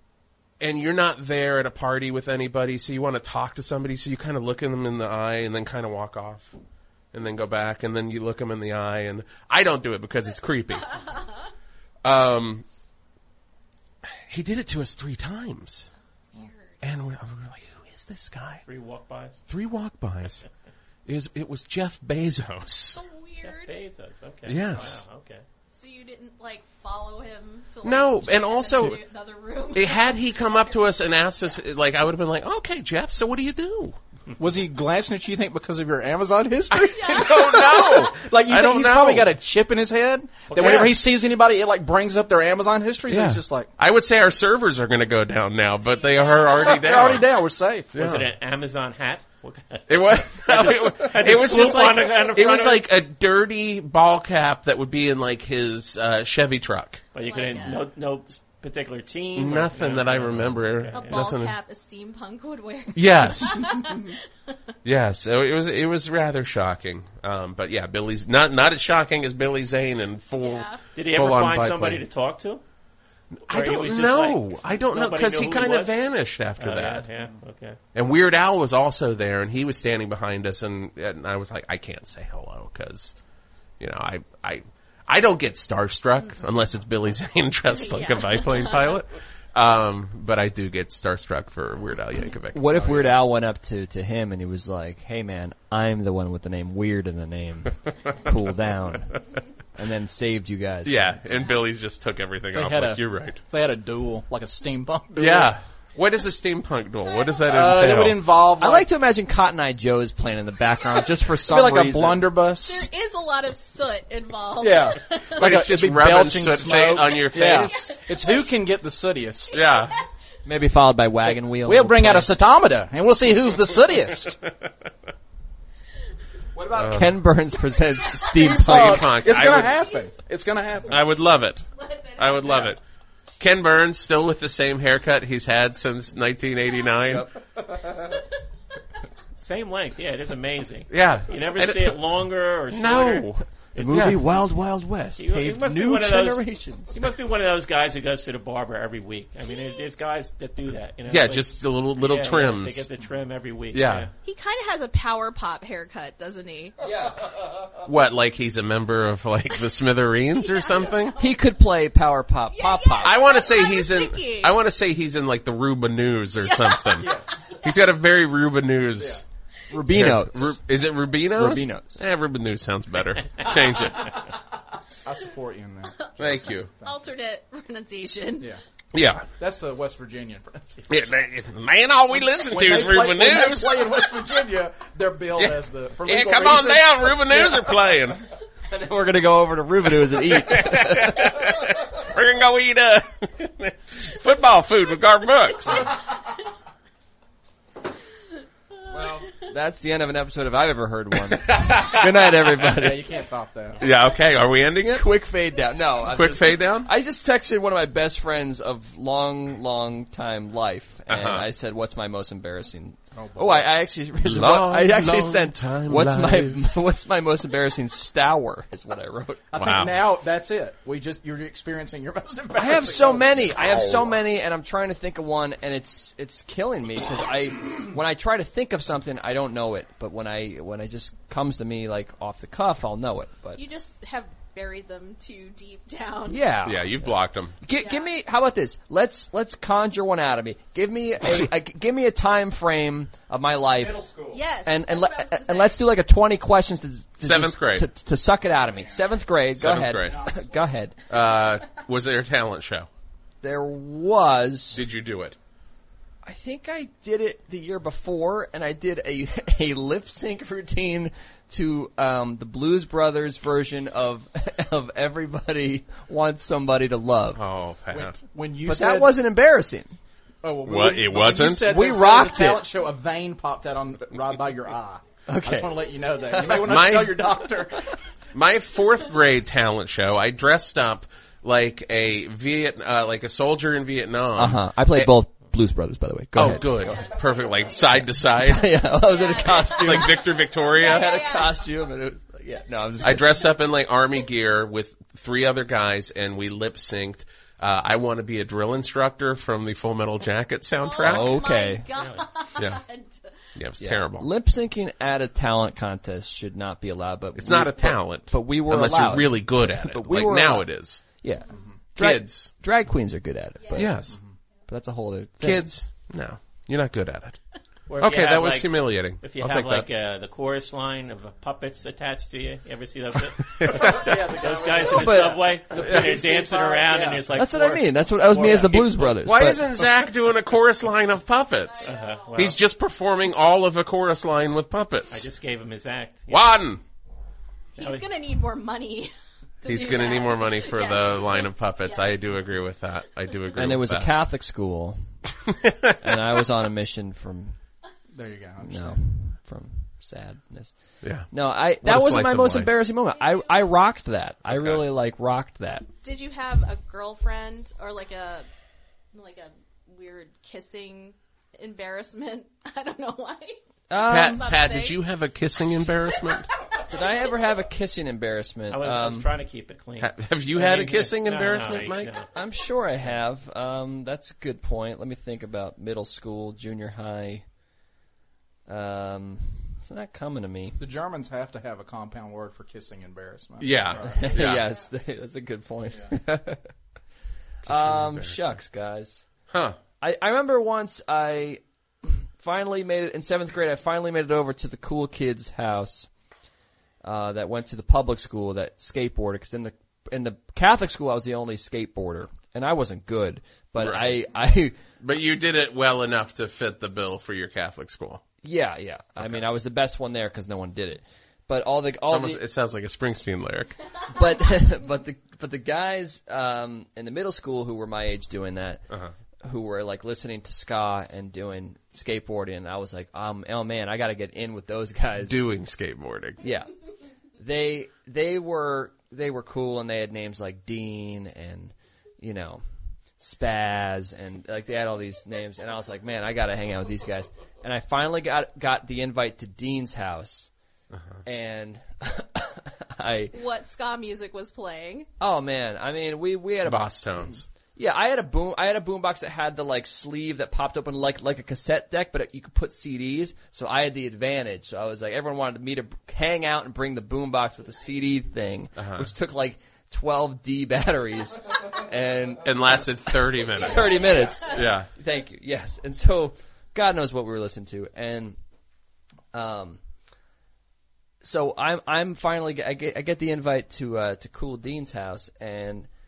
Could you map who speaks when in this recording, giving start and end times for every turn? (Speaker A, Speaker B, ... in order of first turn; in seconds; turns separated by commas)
Speaker A: 0.6-6.5, Speaker A: 7.1-11.0, Speaker A: 12.0-12.6, Speaker A: 14.3-15.9, Speaker B: 16.3-16.8, Speaker A: 16.8-18.6, Speaker C: 18.6-19.4, Speaker A: 19.5-20.4, Speaker A: 21.1-23.0, Speaker B: 22.9-23.7, Speaker C: 23.4-25.4, Speaker A: 24.4-25.0, Speaker B: 25.7-30.9, Speaker A: 27.8-29.0, Speaker A: 29.7-34.0, Speaker D: 34.4-43.7, Speaker A: 36.7-39.3, Speaker B: 36.9-38.0, Speaker C: 40.5-41.0, Speaker A: 40.5-40.9, Speaker A: 43.1-47.2, Speaker B: 45.9-47.1, Speaker D: 46.7-47.9, Speaker A: 47.9-48.3, Speaker C: 47.9-52.8, Speaker A: 49.9-57.1, Speaker C: 57.1-61.2, Speaker B: 57.2-57.9, Speaker A: 59.4-61.5, Speaker B: 60.9-64.5, Speaker A: 62.9-63.7, Speaker A: 64.8-72.0, Speaker B: 70.4-70.8, Speaker C: 70.9-72.6, Speaker A: 73.5-77.1, Speaker C: 73.5-76.0, Speaker C: 76.6-77.8, Speaker A: 77.9-83.1, Speaker A: 83.8-93.2, Speaker B: 87.7-89.0, Speaker E: 92.5-99.2, Speaker E: 99.8-101.2, Speaker A: 100.8-103.4, Speaker D: 102.5-105.5, Speaker A: 105.2-108.2, Speaker D: 107.5-108.9, Speaker E: 108.6-112.3, Speaker D: 111.5-112.9, Speaker B: 112.6-115.5, Speaker D: 114.6-119.6, Speaker A: 115.4-118.0, Speaker B: 117.5-118.5, Speaker A: 119.5-119.9, Speaker B: 119.6-120.0, Speaker E: 120.4-122.4, Speaker D: 121.2-124.4, Speaker E: 126.5-129.2, Speaker A: 126.7-127.2, Speaker A: 128.1-129.7, Speaker D: 128.4-131.0, Speaker B: 129.5-130.2, Speaker A: 130.9-131.7, Speaker B: 131.7-132.8, Speaker A: 132.2-132.8, Speaker A: 133.4-137.3, Speaker E: 137.1-137.3, Speaker C: 139.4-144.1, Speaker A: 140.9-142.0, Speaker A: 142.7-144.2, Speaker E: 143.7-146.9, Speaker C: 145.2-154.1, Speaker A: 151.1-152.9, Speaker A: 153.7-154.1, Speaker B: 154.2-156.8, Speaker E: 156.8-157.3, Speaker A: 157.8-161.2, Speaker B: 160.4-161.5, Speaker E: 161.2-163.3, Speaker B: 162.5-164.6, Speaker A: 163.0-167.1, Speaker B: 166.4-167.1, Speaker D: 167.0-167.4, Speaker A: 167.6-169.2, Speaker E: 169.7-170.6, Speaker A: 169.9-174.2, Speaker E: 171.3-172.0, Speaker D: 175.0-176.9, Speaker A: 176.2-176.7, Speaker B: 176.3-178.5, Speaker A: 178.9-179.3, Speaker D: 179.4-180.9, Speaker A: 180.9-183.9, Speaker D: 182.4-187.5, Speaker A: 185.4-188.2, Speaker E: 188.7-191.4, Speaker A: 190.1-195.9, Speaker E: 198.9-203.1, Speaker A: 201.3-202.5, Speaker D: 202.7-203.9, Speaker A: 203.8-205.1, Speaker E: 204.9-219.6, Speaker A: 206.1-206.9, Speaker A: 211.1-211.4, Speaker D: 213.1-213.7, Speaker A: 214.2-216.7, Speaker D: 219.5-224.1, Speaker A: 219.6-220.0, Speaker E: 222.5-233.6, Speaker B: 233.6-236.5, Speaker E: 236.3-251.0, Speaker A: 236.6-237.6, Speaker B: 237.7-238.1, Speaker D: 243.7-244.5, Speaker B: 244.3-245.8, Speaker A: 247.2-247.9, Speaker D: 248.7-249.2, Speaker A: 249.5-250.2, Speaker D: 250.0-250.7, Speaker A: 251.1-252.9, Speaker E: 253.4-254.8, Speaker A: 254.7-255.4, Speaker E: 256.2-267.4, Speaker A: 267.3-268.2, Speaker D: 267.9-269.1, Speaker E: 268.6-270.0, Speaker D: 270.4-277.9, Speaker A: 270.6-271.7, Speaker E: 271.6-272.7, Speaker E: 275.3-276.8, Speaker A: 276.5-277.3, Speaker A: 278.3-285.1, Speaker E: 284.3-287.1, Speaker A: 286.3-288.7, Speaker B: 286.5-288.0, Speaker E: 288.4-293.4, Speaker B: 288.9-291.6, Speaker A: 289.5-291.2, Speaker A: 293.0-301.4, Speaker B: 300.8-303.3, Speaker E: 301.0-301.9, Speaker C: 301.9-302.2, Speaker A: 303.5-304.3, Speaker E: 303.8-314.1, Speaker A: 307.4-311.0, Speaker D: 311.5-311.8, Speaker A: 311.9-312.5, Speaker B: 313.6-313.9, Speaker A: 313.7-314.2, Speaker D: 314.0-314.4, Speaker E: 314.7-315.7, Speaker A: 315.4-317.4, Speaker C: 317.9-329.1, Speaker A: 318.0-319.9, Speaker A: 323.6-324.2, Speaker D: 323.7-327.5, Speaker E: 324.9-325.5, Speaker A: 325.8-326.1, Speaker E: 327.3-329.7, Speaker A: 328.7-335.2, Speaker B: 331.6-332.5, Speaker C: 331.8-332.6, Speaker C: 335.1-336.5, Speaker A: 336.3-336.8, Speaker B: 337.8-342.3, Speaker C: 337.8-338.0, Speaker A: 339.6-344.1, Speaker E: 343.5-345.0, Speaker A: 345.5-346.0, Speaker E: 346.0-347.6, Speaker D: 348.1-349.0, Speaker E: 348.6-350.7, Speaker A: 351.0-352.7, Speaker E: 351.3-355.9, Speaker B: 353.1-353.7, Speaker A: 354.5-354.8, Speaker B: 356.0-358.4, Speaker B: 359.1-365.0, Speaker E: 363.9-364.5, Speaker A: 364.1-366.5, Speaker B: 366.2-367.0, Speaker E: 366.9-369.3, Speaker C: 368.7-372.3, Speaker A: 370.0-372.1, Speaker E: 372.3-377.4, Speaker E: 378.7-380.8, Speaker D: 380.8-384.3, Speaker A: 383.6-384.6, Speaker E: 383.9-386.7, Speaker A: 387.6-388.6, Speaker E: 387.6-389.2, Speaker A: 389.5-389.8, Speaker E: 390.0-396.1, Speaker E: 397.0-404.8, Speaker A: 403.8-404.2, Speaker A: 405.0-408.2, Speaker E: 408.4-412.4, Speaker A: 409.2-409.4, Speaker A: 412.1-413.8, Speaker E: 414.1-418.8, Speaker E: 419.4-425.4, Speaker A: 425.2-426.4, Speaker E: 426.4-426.7, Speaker E: 427.4-432.6, Speaker E: 433.2-440.5, Speaker A: 440.9-441.2, Speaker E: 441.2-443.4, Speaker B: 443.3-445.1, Speaker E: 445.2-468.4, Speaker A: 446.6-447.4, Speaker A: 458.8-459.1, Speaker A: 462.4-464.9, Speaker E: 469.3-469.8, Speaker E: 471.2-475.9